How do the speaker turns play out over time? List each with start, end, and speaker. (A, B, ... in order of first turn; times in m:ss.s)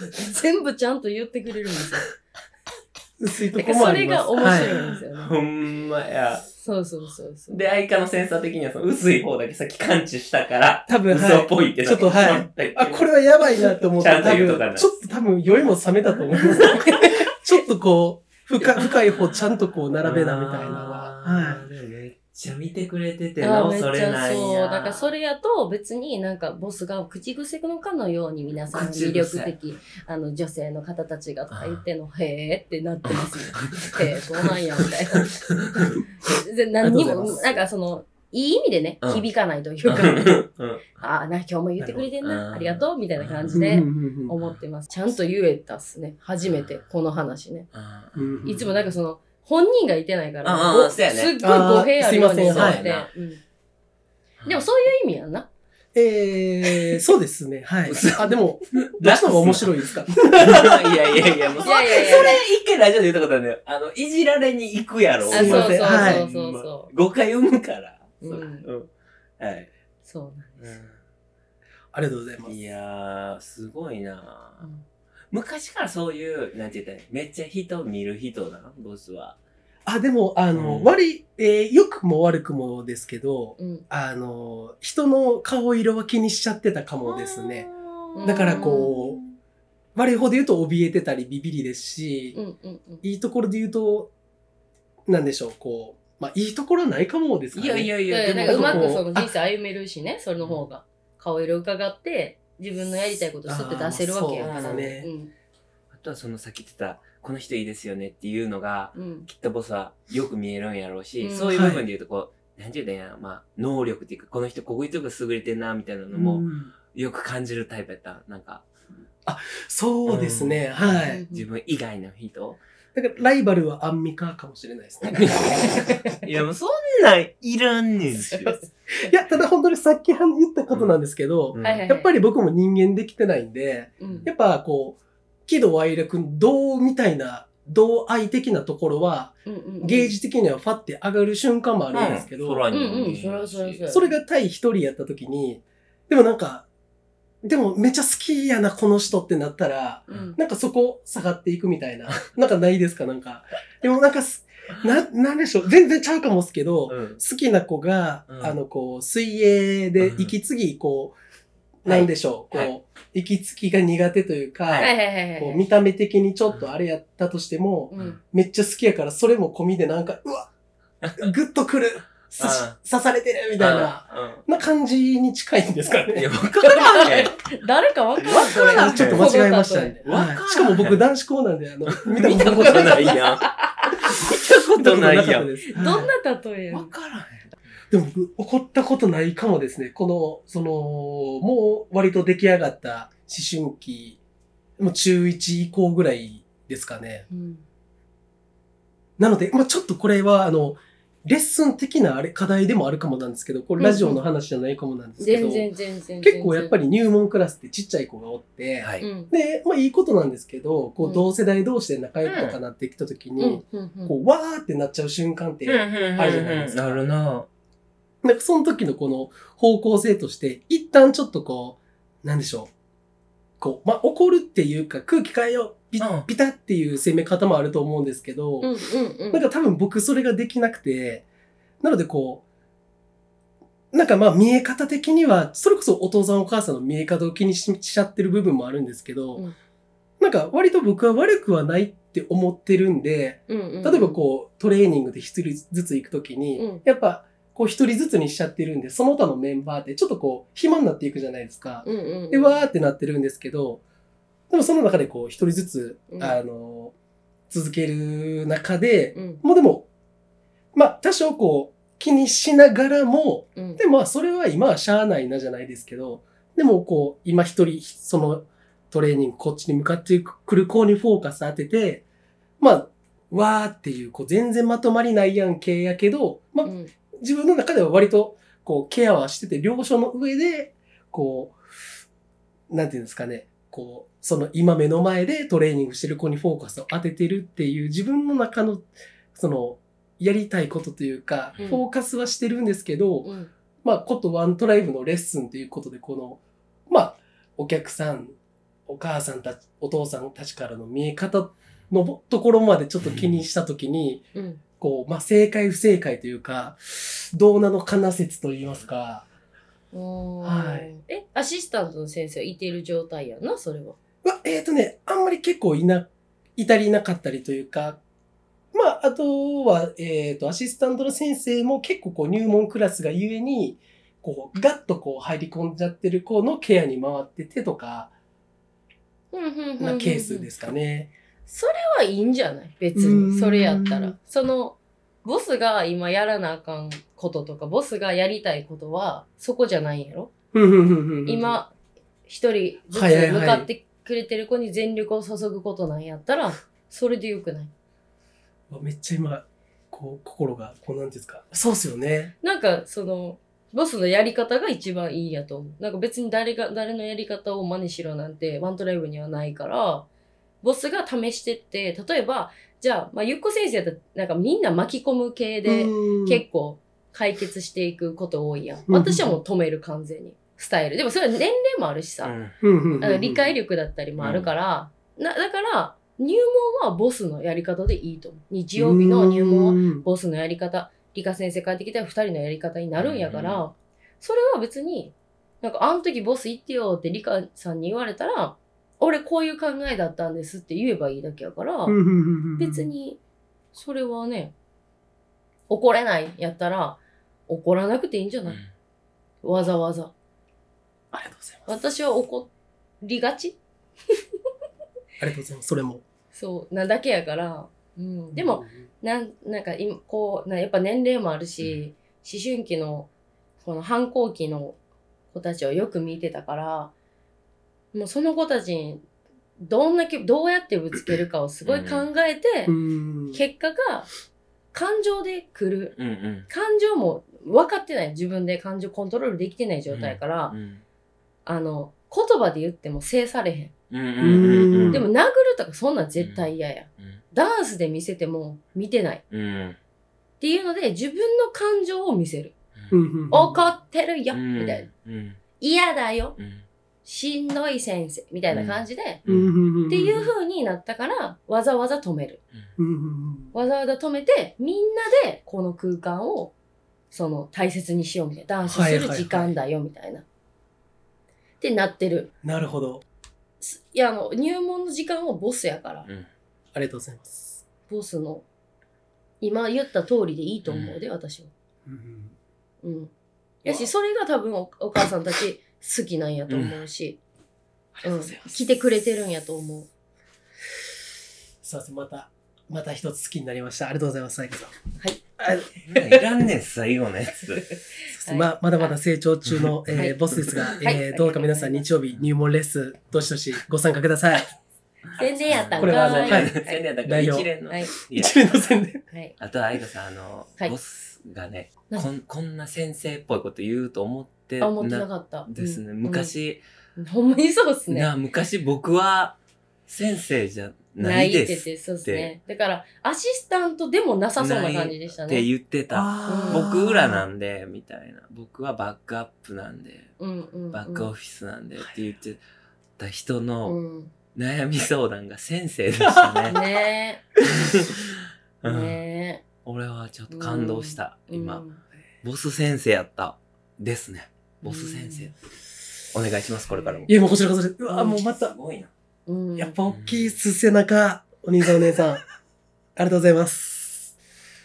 0:00.1-0:02.1 A
0:03.2-0:04.8 B
0:03.6-0:05.3 A
0:04.4-0:06.4 C
0:06.6-0:07.6 A
0:07.5-0:13.1 C
0:10.9-0:21.6 B
0:13.6-0:14.9 C
0:16.4-0:16.9 C
0:16.7-0:17.1 A
0:20.0-0:25.1 C
0:23.4-0:35.3 A
0:28.7-0:29.5 C
0:31.5-0:31.8 C
0:33.0-0:36.0 C
0:36.2-0:40.4 A
0:36.8-0:37.6 B
0:39.8-0:40.9 C
0:41.0-0:47.7 A
0:41.8-0:42.1 B
0:42.2-0:43.7 C
0:43.5-0:44.3 B
0:46.4-0:46.8 C
0:47.7-0:48.8 C
0:48.1-0:48.6 B
0:48.4-0:53.4 A
0:50.4-0:51.3 C
0:51.4-0:52.8 B
0:52.5-0:53.1 C
0:54.4-0:54.6 C
0:54.4-0:55.5 A
0:55.9-1:02.2 B
0:56.7-0:57.0 C
0:57.9-1:09.7 C
1:01.6-1:02.4 A
1:05.3-1:06.2 B
1:05.3-1:06.9 A
1:08.2-1:08.6 A
1:10.0-1:10.7 A
1:10.6-1:11.0 C
1:11.9-1:12.5 B
1:12.4-1:14.7 C
1:15.3-1:19.4 C
1:19.8-1:27.7 B
1:20.5-1:20.9 C
1:23.6-1:23.8 A
1:27.0-1:29.4 C
1:28.1-1:28.9 A
1:28.2-1:29.2 B
1:29.9-1:32.4 B
1:32.3-1:33.0 A
1:33.0-1:34.1 B
1:35.1-1:39.3 B
1:37.5-1:39.0 C
1:38.1-1:45.3 A
1:43.5-1:45.1 B
1:44.4-1:44.9 C
1:45.9-1:58.6 C
1:48.9-1:49.3 A
1:51.2-1:51.6 A
1:51.5-1:51.8 B
1:56.1-1:56.7 B
1:59.2-2:01.2 B
2:00.0-2:02.6 C
2:01.1-2:01.4 A
2:02.9-2:06.2 B
2:05.1-2:08.6 C
2:05.6-2:06.0 A
2:08.3-2:08.6 A
2:09.0-2:22.6 B
2:10.7-2:11.0 C
2:11.5-2:11.8 C
2:11.6-2:12.1 A
2:14.0-2:14.3 A
2:19.4-2:20.1 A
2:21.9-2:23.9 C
2:22.7-2:24.1 A
2:23.9-2:26.7 B
2:27.4-2:41.1 B
2:30.1-2:30.4 A
2:36.9-2:37.2 C
2:38.3-2:38.6 C
2:40.0-2:40.3 C
2:41.8-2:50.5 B
2:41.8-2:42.7 C
2:44.7-2:44.9 C
2:44.8-2:45.6 A
2:47.9-2:48.2 A
2:51.0-2:51.3 C
2:51.2-2:56.3 B
2:52.4-2:52.8 C
2:53.6-2:54.4 C
2:56.1-2:57.4 C
2:56.6-3:00.0 A
2:58.2-2:59.3 C
2:58.2-3:03.2 B
3:00.0-3:01.0 C
3:01.9-3:03.5 C
3:02.6-3:04.0 A
3:04.0-3:05.6 C
3:04.1-3:06.1 B
3:05.7-3:06.9 A
3:06.7-3:07.4 C
3:07.9-3:14.2 B
3:14.8-3:17.2 B
3:17.3-3:17.6 A
3:19.2-3:25.7 B
3:23.8-3:24.2 A
3:25.2-3:26.7 A
3:26.2-3:37.0 B
3:28.8-3:29.0 C
3:29.0-3:29.3 A
3:31.0-3:31.2 A
3:32.2-3:32.6 C
3:33.4-3:34.1 A
3:35.6-3:37.5 C
3:38.2-3:42.7 B
3:43.6-3:48.7 B
3:46.0-3:46.3 C
3:48.6-3:49.4 A
3:49.3-3:51.2 B
3:51.8-3:52.4 B
3:53.9-3:59.4 B
4:00.2-4:13.8 B
4:03.5-4:04.2 A
4:06.6-4:06.8 A
4:11.8-4:12.6 A
4:14.5-4:16.9 B
4:16.1-4:16.4 A
4:17.5-4:19.9 B
4:19.1-4:19.4 A
4:20.7-4:32.0 B
4:23.6-4:23.8 A
4:32.6-4:41.6 B
4:36.6-4:36.9 A
4:42.7-4:53.3 B
4:51.6-4:51.8 A
4:53.2-4:53.5 A
4:53.8-5:04.3 B
5:03.0-5:03.4 C
5:04.3-5:04.6 A
5:04.8-5:09.3 B
5:09.9-5:14.0 A
5:10.4-5:10.9 B
5:14.2-5:18.0 B
5:18.7-5:28.1 B
5:29.3-5:30.5 A
5:29.8-5:31.1 B
5:31.4-5:40.3 A
5:32.9-5:34.1 B
5:40.5-5:41.6 B
5:41.2-5:41.7 A
5:42.3-5:47.7 A
5:42.9-5:43.7 B
5:48.7-5:52.3 B
5:52.4-6:00.1 A
6:00.6-6:12.3 A
6:05.6-6:06.4 B
6:08.9-6:09.4 B
6:12.2-6:12.5 C
6:12.6-6:13.5 B
6:13.0-6:32.0 A
6:14.2-6:14.5 C
6:18.8-6:20.0 B
6:23.0-6:23.6 C
6:31.9-6:32.9 B
6:32.6-6:33.2 A
6:33.7-6:34.5 A
6:35.7-6:38.6 A
6:39.4-6:40.1 A
6:41.1-6:41.8 B
6:41.7-6:42.5 A
6:43.0-6:43.6 A
6:45.2-6:46.0 B
6:46.3-6:53.1 A
6:48.3-6:48.9 B
6:53.6-6:54.8 A
6:55.3-6:56.9 A
6:57.9-6:59.0 A
6:59.6-7:02.7 A
7:01.6-7:02.1 C
7:02.7-7:03.4 B
7:03.3-7:04.1 A
7:04.7-7:05.9 A
7:06.0-7:06.5 C
7:06.5-7:10.5 A
7:09.9-7:10.8 C
7:11.4-7:13.7 A
7:13.9-7:15.1 C
7:14.2-7:15.1 B
7:14.9-7:19.2 A
7:16.2-7:17.2 C
7:19.3-7:19.8 C
7:20.4-7:22.5 A
7:22.9-7:23.6 B
7:23.3-7:24.9 A
7:24.3-7:25.4 C
7:25.6-7:26.4 A
7:26.4-7:26.6 C
7:27.0-7:29.2 A
7:28.5-7:29.5 C
7:29.3-7:30.3 B
7:29.9-7:32.4 A
7:32.8-7:33.5 B
7:33.5-7:36.5 A
7:37.1-7:40.2 A
7:38.7-7:39.5 B
7:41.6-7:42.3 A
7:42.4-7:43.0 B
7:43.6-7:46.1 A
7:46.7-7:47.6 B
7:47.9-7:48.4 A
7:49.4-7:51.5 A
7:50.6-7:51.0 C
7:51.8-7:52.3 B
7:52.8-7:53.1 A
7:53.6-7:57.2 A
7:53.6-7:53.9 B
7:56.5-7:56.8 C
7:58.0-7:59.9 A
7:58.1-7:58.6 B
8:01.6-8:04.8 B
8:05.4-8:05.7 B
8:05.8-8:07.7 C
8:07.5-8:08.9 A
8:08.1-8:14.5 B
8:09.9-8:10.2 A
8:10.7-8:11.8 A
8:15.2-8:16.8 A
8:15.5-8:18.5 C
8:15.8-8:17.5 B
8:17.7-8:17.9 A
8:18.1-8:19.0 B
8:19.4-8:26.6 C
8:24.6-8:26.3 A
8:27.0-8:28.1 A
8:27.9-8:32.3 C
8:31.0-8:35.4 A
8:34.4-8:40.1 C
8:35.9-8:37.2 B
8:36.2-8:36.6 A
8:40.2-8:41.1 A
8:40.7-8:42.4 C
8:43.0-8:43.8 C
8:43.6-8:44.1 A
8:44.3-8:46.6 C
8:46.1-8:46.5 B
8:46.5-8:47.2 A
8:47.4-8:49.0 C
8:48.6-8:49.4 A
8:49.6-8:51.6 C
8:50.3-8:51.8 A
8:52.2-8:55.3 C
8:54.6-8:55.3 A
8:56.1-8:57.1 C
8:56.8-8:57.0 A
8:57.1-8:58.6 B
8:58.2-8:58.9 C
8:59.3-8:59.7 A
8:59.6-9:02.2 B
8:59.8-9:00.3 C
9:03.0-9:04.1 B